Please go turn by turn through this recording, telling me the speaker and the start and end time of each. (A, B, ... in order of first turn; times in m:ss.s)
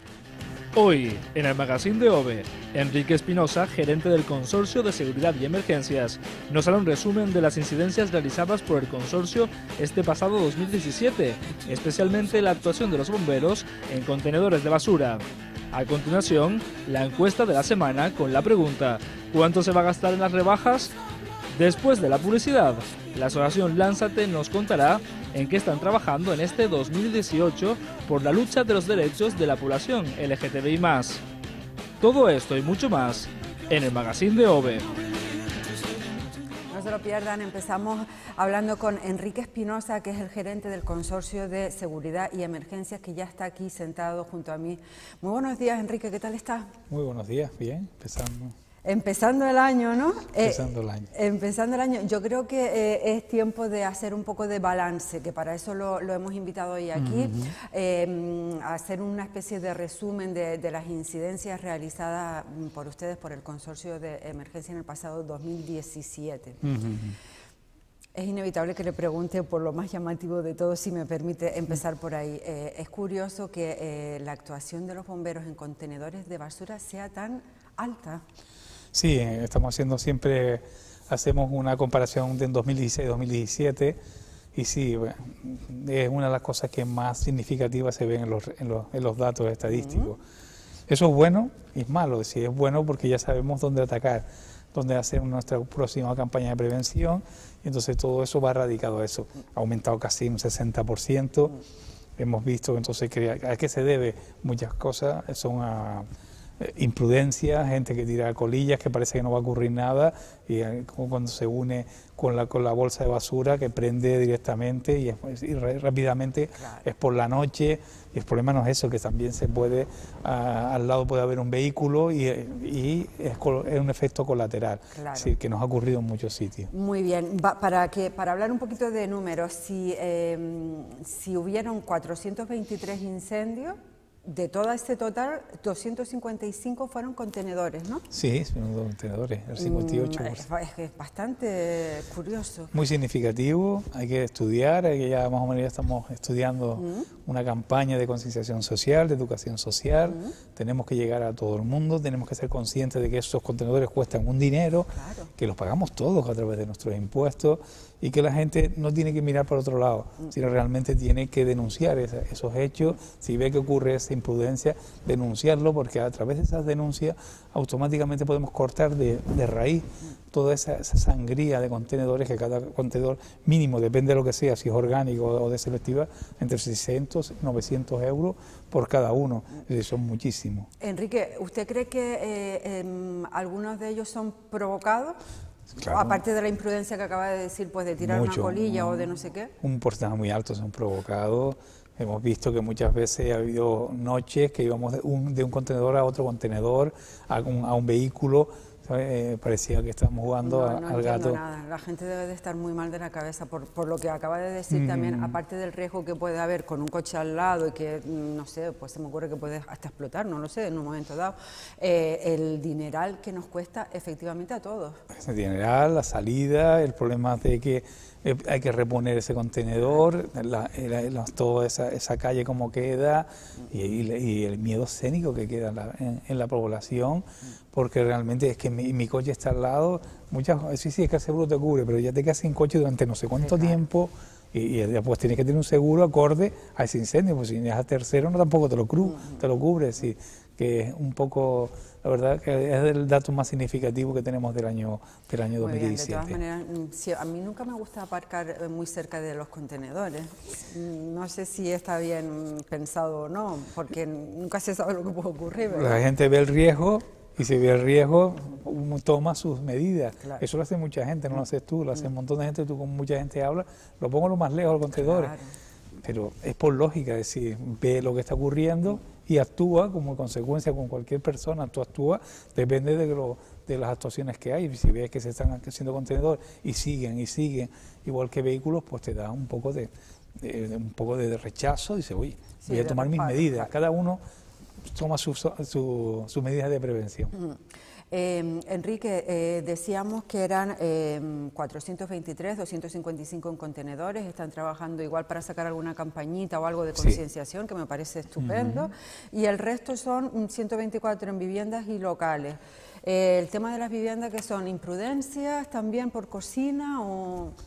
0:00.8-0:20.9 A
0:21.5-0:31.2 A
0:32.0-0:34.9 A
0:36.7-0:46.7 B
0:46.9-0:48.6 C
0:48.8-1:06.6 B
0:50.4-0:51.1 C
0:57.0-0:57.5 C
1:06.6-1:07.2 C
1:08.2-1:18.2 B
1:18.9-1:24.0 C
1:24.5-1:30.2 C
1:29.7-1:30.1 B
1:30.9-1:41.6 C
1:42.2-1:46.1 C
1:46.6-2:06.7 C
1:56.6-1:56.9 B
2:04.9-2:05.3 B
2:06.7-2:18.0 B
2:18.1-2:20.5 C
2:19.6-2:22.7 B
2:22.7-3:00.7 C
2:26.8-2:27.1 B
2:30.1-2:30.3 B
2:34.9-2:35.3 B
3:00.8-3:05.2 B
3:05.8-3:06.2 C
3:05.9-3:09.5 B
3:08.0-3:21.4 C
3:20.4-3:35.0 B
3:24.7-3:25.4 C
3:35.1-4:06.4 C
3:39.8-3:40.1 B
3:53.4-3:53.8 B
3:59.0-3:59.5 B
4:05.6-4:16.0 B
4:15.7-4:25.4 C
4:25.0-4:25.5 B
4:26.0-4:44.2 C
4:42.6-4:43.7 B
4:44.8-4:47.3 C
4:47.3-5:07.6 B
4:57.0-4:57.2 C
4:58.4-4:58.9 C